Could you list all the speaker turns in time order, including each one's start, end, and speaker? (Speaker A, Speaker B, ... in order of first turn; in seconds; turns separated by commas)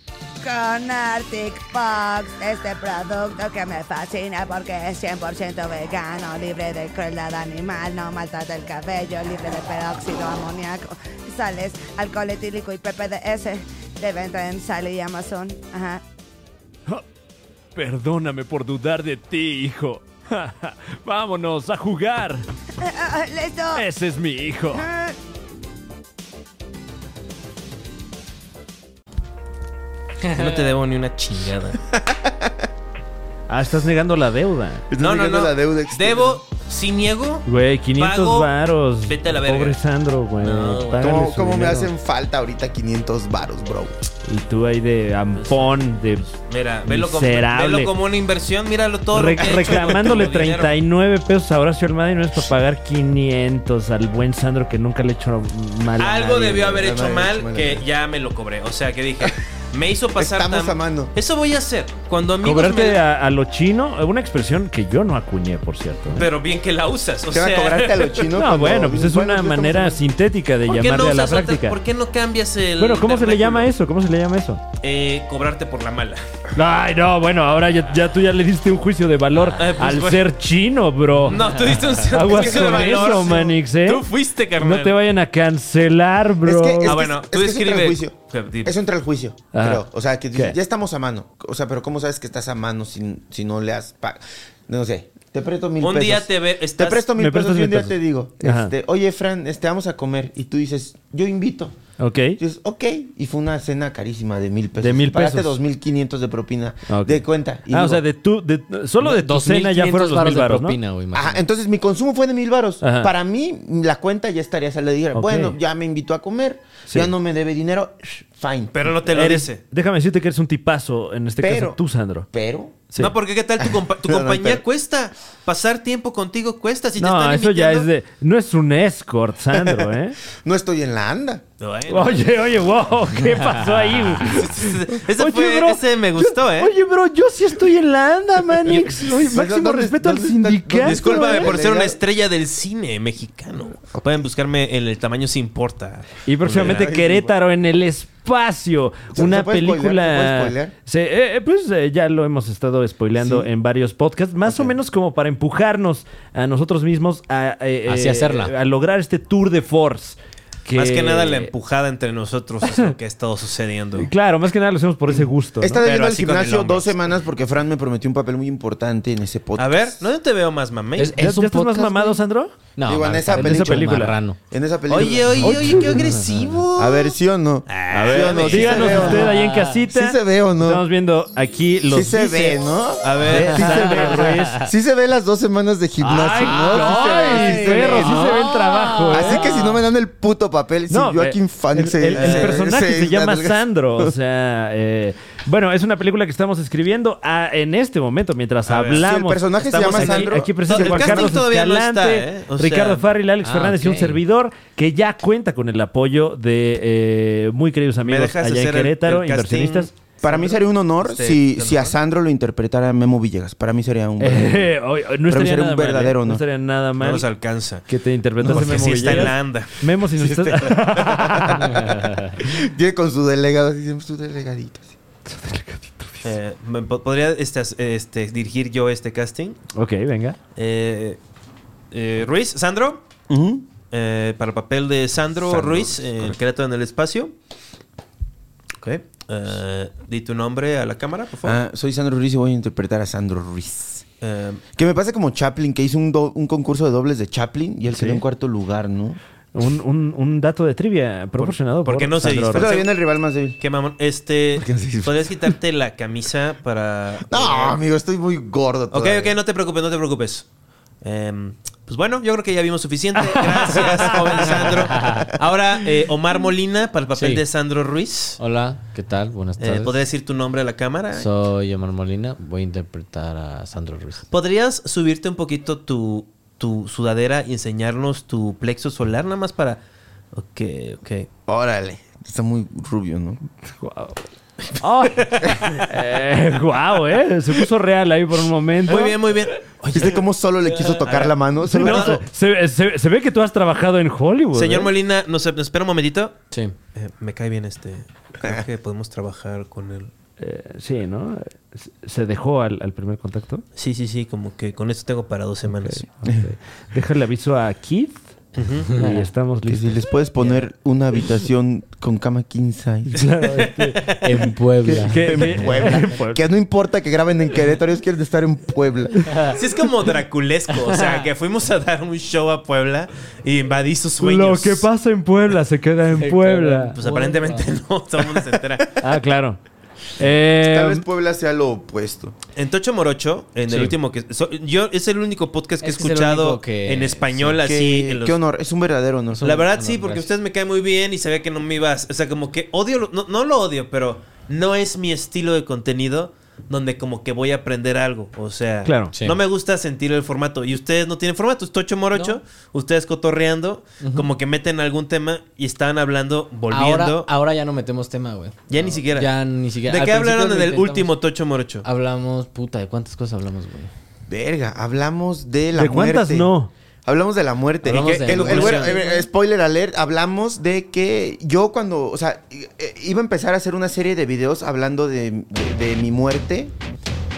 Speaker A: 0.4-16.0, Speaker B: 17.7-22.4, Speaker A: 22.8-23.8, Speaker B: 23.7-24.9, Speaker A: 24.7-25.1, Speaker C: 30.3-30.6, Speaker D: 30.3-31.8, Speaker E: 32.2-32.5, Speaker B: 33.5-34.8, Speaker E: 34.9-36.4, Speaker D: 35.0-38.5, Speaker B: 37.5-41.9, Speaker D: 39.0-39.8, Speaker D: 40.4-41.2, Speaker E: 41.0-44.0, Speaker B: 44.2-46.3, Speaker D: 45.4-45.7, Speaker D: 46.3-50.7, Speaker B: 46.8-47.9, Speaker B: 49.1-56.8, Speaker D: 56.0-63.0, Speaker E: 56.7-57.8, Speaker E: 60.1-61.1, Speaker B: 62.4-66.3, Speaker D: 66.1-68.2, Speaker E: 67.3-70.0, Speaker B: 68.3-71.7, Speaker D: 70.6-73.7, Speaker B: 72.8-74.6, Speaker D: 74.8-76.2, Speaker B: 76.5-84.1, Speaker D: 79.5-80.2, Speaker D: 81.2-85.0, Speaker E: 82.2-83.5, Speaker B: 84.6-87.0, Speaker E: 86.4-101.7, Speaker D: 86.8-88.8, Speaker B: 89.5-89.8, Speaker D: 95.8-97.1, Speaker B: 97.1-98.7, Speaker B: 102.0-102.4, Speaker E: 102.4-108.0, Speaker B: 104.8-105.6, Speaker B: 106.9-110.8, Speaker C: 109.0-111.4, Speaker E: 111.1-118.9, Speaker B: 112.8-113.1, Speaker B: 115.1-115.5, Speaker D: 118.7-119.6, Speaker B: 119.0-122.2, Speaker E: 121.4-121.8, Speaker E: 122.3-122.8, Speaker D: 123.0-127.9, Speaker E: 123.6-124.6, Speaker B: 127.0-130.2, Speaker E: 129.5-129.8, Speaker E: 130.4-131.4, Speaker D: 131.6-132.3, Speaker B: 131.9-141.5, Speaker D: 134.2-136.7, Speaker E: 138.7-142.0, Speaker D: 140.8-146.9, Speaker B: 146.2-161.5, Speaker E: 146.5-147.3, Speaker E: 149.1-150.7, Speaker E: 153.2-153.5, Speaker E: 154.4-154.7, Speaker C: 157.8-158.5, Speaker D: 160.7-164.1, Speaker B: 162.6-162.9, Speaker B: 164.0-165.8, Speaker E: 165.1-170.0, Speaker D: 165.8-166.9, Speaker D: 169.6-171.2, Speaker C: 171.0-172.2, Speaker B: 171.1-172.5, Speaker C: 172.8-174.4, Speaker E: 172.8-175.9, Speaker B: 173.3-174.2, Speaker D: 174.9-177.2, Speaker C: 175.6-176.5, Speaker E: 176.7-179.3, Speaker D: 177.7-179.2, Speaker B: 177.9-182.6, Speaker C: 178.7-179.8, Speaker E: 179.9-180.8, Speaker E: 181.9-188.4, Speaker D: 183.0-183.9, Speaker B: 183.3-184.6, Speaker C: 183.4-184.7, Speaker C: 186.0-189.8, Speaker B: 186.0-189.5, Speaker E: 189.1-194.1, Speaker B: 190.9-209.9, Speaker D: 192.1-192.6, Speaker D: 198.7-199.1, Speaker E: 198.9-201.4, Speaker D: 199.6-203.1, Speaker C: 203.4-204.2, Speaker D: 208.0-211.9, Speaker E: 210.2-216.4, Speaker B: 214.2-217.2, Speaker D: 217.0-217.9, Speaker B: 217.9-222.1, Speaker D: 218.4-219.7, Speaker E: 218.4-219.3, Speaker E: 220.2-224.9, Speaker B: 225.3-226.3, Speaker D: 226.2-229.6, Speaker B: 229.7-230.4, Speaker D: 230.6-231.2, Speaker D: 231.9-233.0, Speaker E: 233.3-233.6, Speaker D: 233.9-237.3, Speaker E: 235.4-236.3, Speaker D: 238.8-241.6, Speaker E: 241.4-244.0, Speaker D: 244.2-244.6, Speaker E: 244.8-249.2, Speaker B: 247.9-248.2, Speaker B: 249.5-252.7, Speaker D: 251.4-252.9, Speaker E: 252.5-253.6, Speaker D: 253.6-257.8, Speaker E: 254.6-255.5, Speaker E: 257.3-259.3, Speaker D: 258.9-260.4, Speaker D: 261.0-268.4, Speaker E: 263.7-265.1, Speaker C: 264.6-265.3, Speaker C: 267.1-267.4, Speaker C: 268.4-270.0, Speaker D: 269.6-271.3, Speaker C: 271.1-274.2, Speaker D: 274.3-279.8, Speaker D: 280.3-281.3, Speaker E: 281.5-283.4, Speaker B: 283.7-284.2, Speaker D: 284.7-285.9, Speaker B: 284.8-289.2, Speaker D: 288.8-290.2, Speaker E: 289.9-292.2, Speaker D: 290.8-292.2, Speaker B: 291.6-294.9, Speaker D: 294.5-296.4, Speaker D: 296.9-300.1, Speaker B: 300.4-303.6, Speaker D: 303.8-306.1, Speaker B: 305.8-308.2, Speaker E: 306.2-306.5, Speaker D: 308.5-308.9, Speaker C: 308.9-309.1, Speaker B: 308.9-309.9, Speaker E: 309.7-313.3, Speaker C: 310.4-310.7, Speaker B: 313.1-314.1, Speaker D: 313.4-314.3, Speaker C: 314.2-315.9, Speaker E: 314.8-319.5, Speaker B: 315.1-316.4, Speaker C: 319.2-319.6, Speaker D: 319.5-324.9, Speaker C: 320.8-321.2, Speaker B: 324.2-326.9, Speaker C: 326.2-327.7, Speaker D: 326.9-329.0, Speaker B: 329.0-329.6, Speaker B: 330.2-331.0, Speaker E: 330.6-332.4, Speaker D: 332.6-338.4, Speaker C: 333.7-333.9, Speaker C: 335.8-337.6, Speaker E: 337.6-339.5, Speaker C: 339.3-340.3, Speaker D: 339.4-357.3, Speaker B: 348.8-349.1, Speaker C: 349.1-349.4, Speaker C: 352.1-352.4, Speaker C: 354.0-354.3, Speaker C: 356.7-361.1, Speaker D: 358.7-359.3, Speaker D: 359.9-361.8, Speaker C: 361.8-363.9, Speaker E: 364.3-366.5, Speaker B: 365.7-366.7, Speaker E: 367.1-376.7, Speaker C: 367.8-369.3, Speaker D: 368.2-369.0